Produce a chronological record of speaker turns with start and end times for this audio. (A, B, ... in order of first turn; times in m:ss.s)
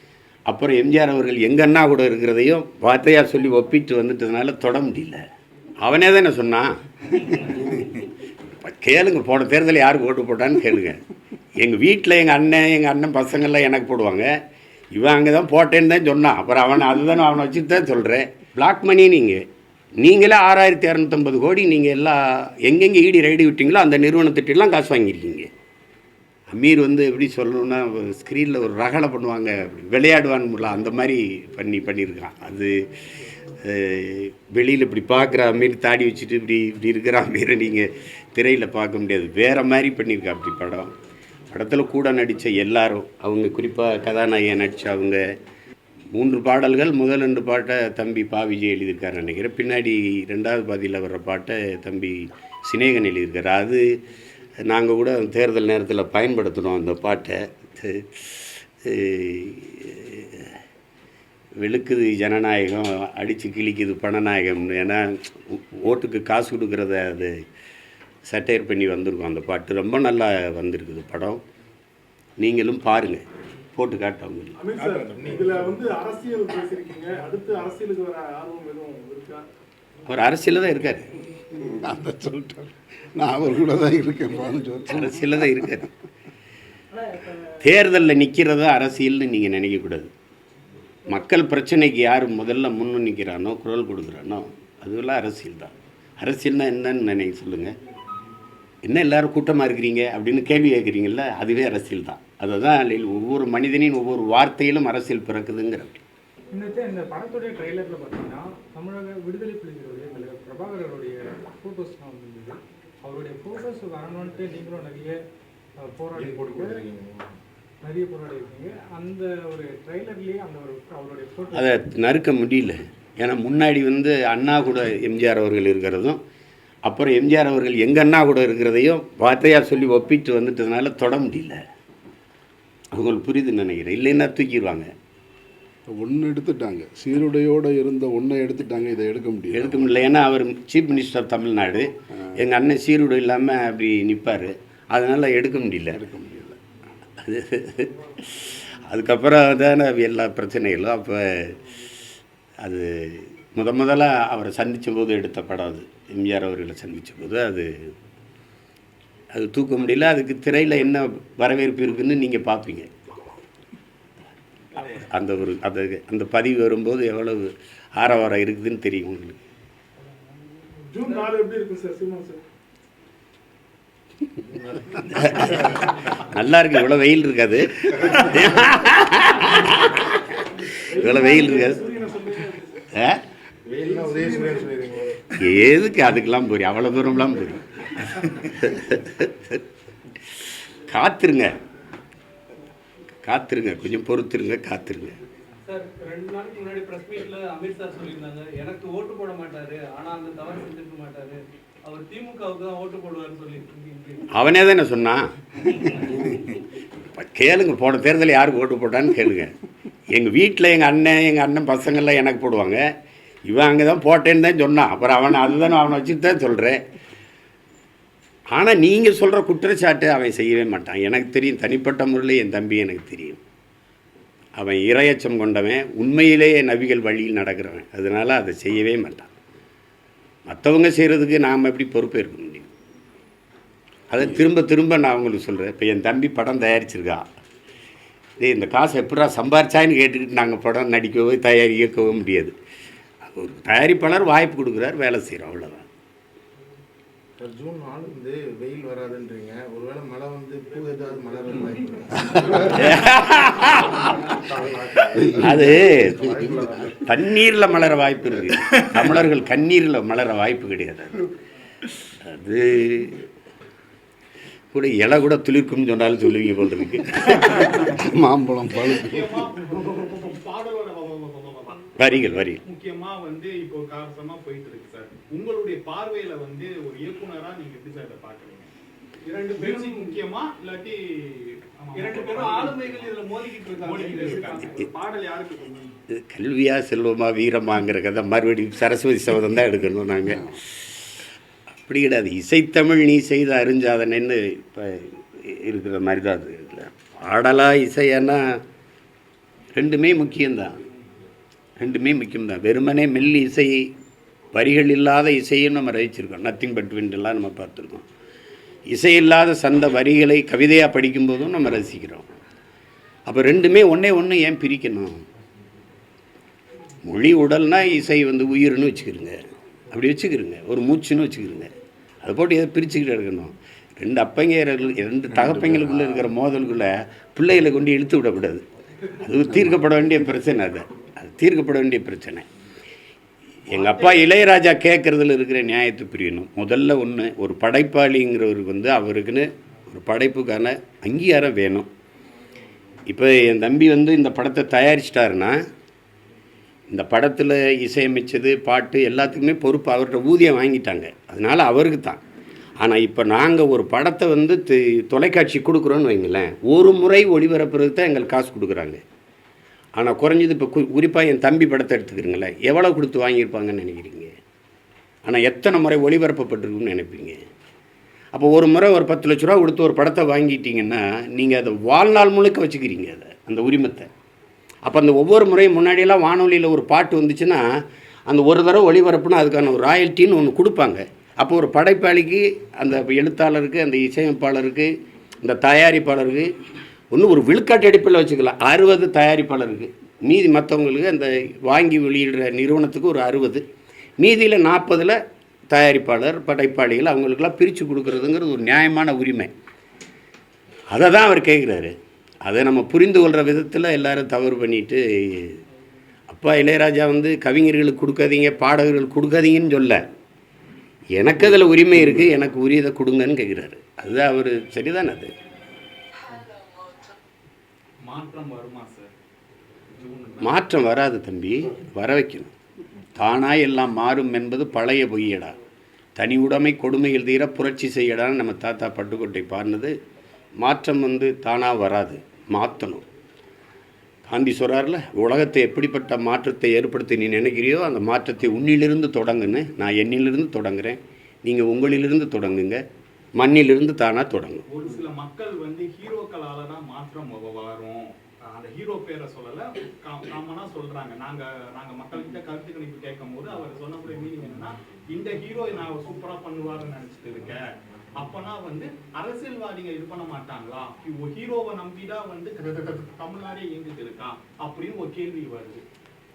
0:00.5-0:05.2 A
0:05.8-0:08.0 A
0:08.6-0:11.0 A
0:11.6-0:14.3 A
0:14.9-0:19.4 A
0:20.0-0:25.5 A
0:26.5-0:32.7 A
0:33.6-0:40.9 A
0:41.5-0:45.2 A
0:46.1-0:53.8 A
0:54.6-1:00.5 A
1:01.6-1:07.4 A
1:08.3-1:11.4 A
1:12.4-1:13.2 A
1:13.7-1:14.5 A
1:14.6-1:19.4 B
1:14.8-1:15.8 C
1:20.1-1:21.1 A
1:21.5-1:25.3 D
1:24.9-1:25.9 A
1:27.4-1:30.1 A
1:31.1-1:37.7 A
1:38.8-1:46.0 A
1:46.5-1:55.2 E
1:55.8-1:56.8 E
1:56.2-1:57.4 C
1:57.8-2:01.7 E
2:01.5-2:06.2 A
2:06.8-2:11.6 A
2:12.9-2:14.9 A
2:15.9-2:19.9 D
2:19.5-2:26.0 A
2:25.9-2:26.6 D
2:27.2-2:31.6 A
2:32.6-2:37.9 A
2:39.3-2:42.9 A
2:44.7-2:49.4 A
2:50.9-2:52.4 B
2:54.4-2:55.9 C
2:55.1-3:01.9 A
3:00.7-3:02.6 B
3:02.9-3:03.2 A
3:03.6-3:05.2 C
3:03.8-3:04.8 B
3:05.3-3:09.6 A
3:10.9-3:11.5 A
3:13.2-3:15.1 A
3:15.7-3:24.2 F
3:24.3-3:26.6 A
3:27.1-3:29.5 A
3:30.1-3:32.8 A
3:33.5-3:36.8 A
3:38.5-3:43.4 A
3:44.6-3:49.3 A
3:50.5-3:52.7 A
3:54.1-3:57.2 A
3:58.4-4:02.5 A
4:03.2-4:05.8 A
4:07.4-4:17.0 C
4:12.7-4:14.3 A
4:15.4-4:16.2 A
4:16.9-4:21.2 A
4:22.1-4:23.2 A
4:24.7-4:27.9 A
4:27.8-4:29.4 D
4:28.8-4:31.9 G
4:32.0-4:32.6 A
4:32.6-4:38.7 G
4:39.3-4:40.1 F
4:39.6-4:43.2 G
4:42.0-4:44.7 F
4:43.7-4:44.9 G
4:44.4-4:45.9 B
4:46.1-4:51.0 A
4:51.8-4:58.6 A
4:59.7-5:00.8 A
5:01.8-5:03.9 A
5:04.5-5:08.0 A
5:08.9-5:12.2 A
5:13.3-5:15.2 A
5:17.0-5:19.4 A
5:19.9-5:21.7 A
5:22.2-5:28.6 A
5:25.3-5:26.2 D
5:29.2-5:32.4 A
5:29.5-5:29.8 D
5:33.7-5:41.9 A
5:43.1-5:45.6 A
5:46.9-5:52.2 A
5:52.8-5:59.0 A
6:00.0-6:04.3 A
6:05.2-6:07.4 A
6:08.3-6:14.1 A
6:14.8-6:17.7 A
6:18.3-6:24.9 A
6:25.4-6:26.5 A
6:27.1-6:33.6 A
6:34.2-6:35.2 A
6:35.7-6:39.5 A
6:40.9-6:45.6 A
6:46.3-6:50.0 A
6:51.2-6:55.3 A
6:58.0-6:59.1 G
7:00.0-7:00.5 G
7:00.4-7:02.5 A
7:03.2-7:05.5 A
7:06.2-7:10.0 A
7:10.6-7:13.0 A
7:14.2-7:22.8 A
7:23.4-7:24.6 A
7:24.7-7:45.8 G